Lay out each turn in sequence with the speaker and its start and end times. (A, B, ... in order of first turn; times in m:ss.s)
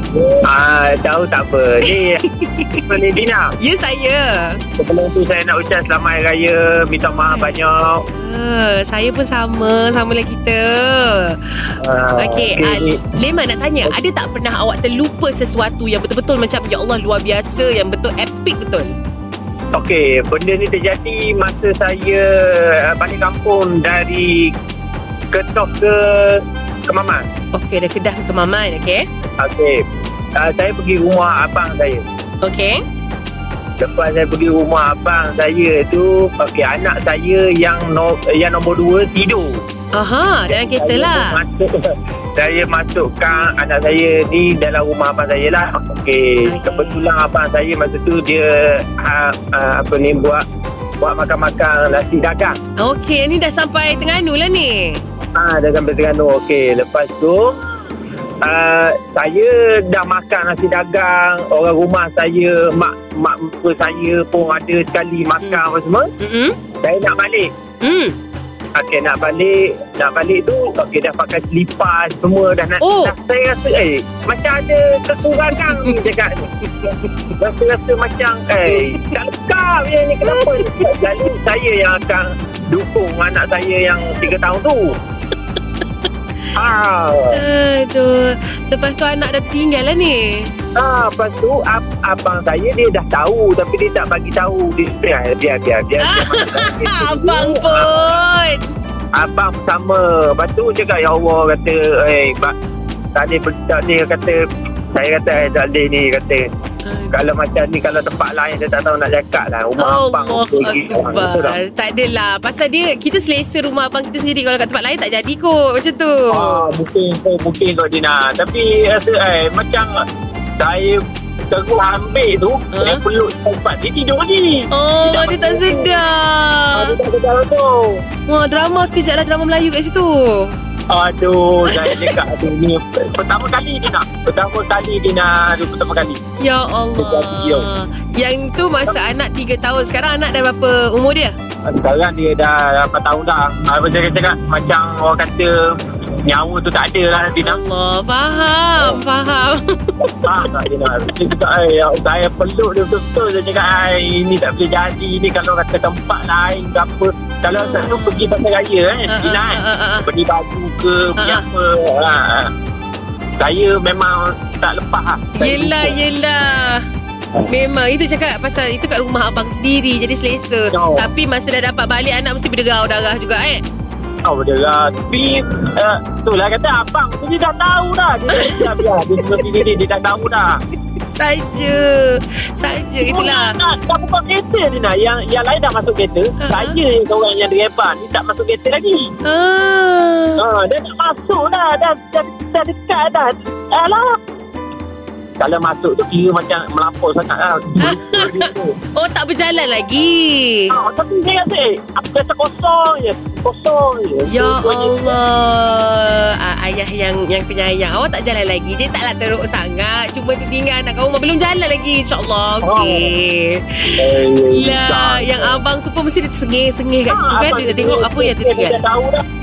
0:00.2-0:02.2 A
0:01.8-0:03.0 B
0:02.9-0:03.5 A
0:03.6-0:04.6 B
0:04.8-0:08.0 A
0:06.9-0:11.4 B
0:11.8-0:13.0 A
0:12.2-0:18.9 B
0:19.7-0:24.5 A
0:25.3-0:27.2 A
0:27.5-0:29.0 B
0:29.4-0:29.8 A
0:30.4-0:32.0 A
0:32.4-0:32.8 B
0:33.8-0:39.6 A
0:39.9-0:41.4 B
0:40.5-0:41.7 A
0:42.4-0:50.4 A
0:46.4-0:47.1 B
0:51.0-0:52.6 A
0:52.8-0:55.0 B
0:55.4-0:57.6 A
0:58.4-1:06.1 A
1:06.2-1:06.6 B
1:06.8-1:07.5 A
1:07.8-1:08.2 B
1:08.8-1:16.5 A
1:12.8-1:13.1 B
1:17.4-1:25.0 A
1:18.7-1:18.9 B
1:20.3-1:20.8 B
1:26.6-1:27.4 A
1:27.3-1:30.5 B
1:30.8-1:38.1 A
1:36.0-1:38.7 B
1:39.2-1:42.5 A
1:43.1-1:44.4 A
1:45.0-1:46.5 A
1:46.8-1:47.1 B
1:47.1-1:51.6 A
1:49.8-1:56.7 B
1:56.3-1:59.9 A
2:00.6-2:06.0 A
2:02.7-2:03.0 B
2:04.7-2:06.9 B
2:06.7-2:08.0 A
2:08.3-2:10.5 B
2:10.9-2:16.2 A
2:11.7-2:12.1 B
2:16.4-2:21.3 B
2:17.0-2:17.7 A
2:21.6-2:27.6 A
2:27.4-2:30.1 B
2:30.2-2:42.5 A
2:37.5-2:38.3 B
2:39.1-2:40.1 B
2:41.2-2:41.4 B
2:43.4-2:46.0 A
2:45.4-2:46.8 B
2:47.5-2:53.6 B
2:50.7-2:51.1 A
2:54.2-3:00.6 A
2:58.3-2:59.4 B
3:01.1-3:03.5 B
3:03.0-3:09.1 A
3:06.4-3:06.8 B
3:09.2-3:10.4 B
3:10.4-3:14.2 A
3:15.4-3:18.8 A
3:17.8-3:20.7 B
3:20.7-3:25.2 A
3:24.3-3:33.9 B
3:32.6-3:33.1 A
3:34.0-3:35.6 A
3:34.5-3:38.8 B
3:37.1-3:39.2 A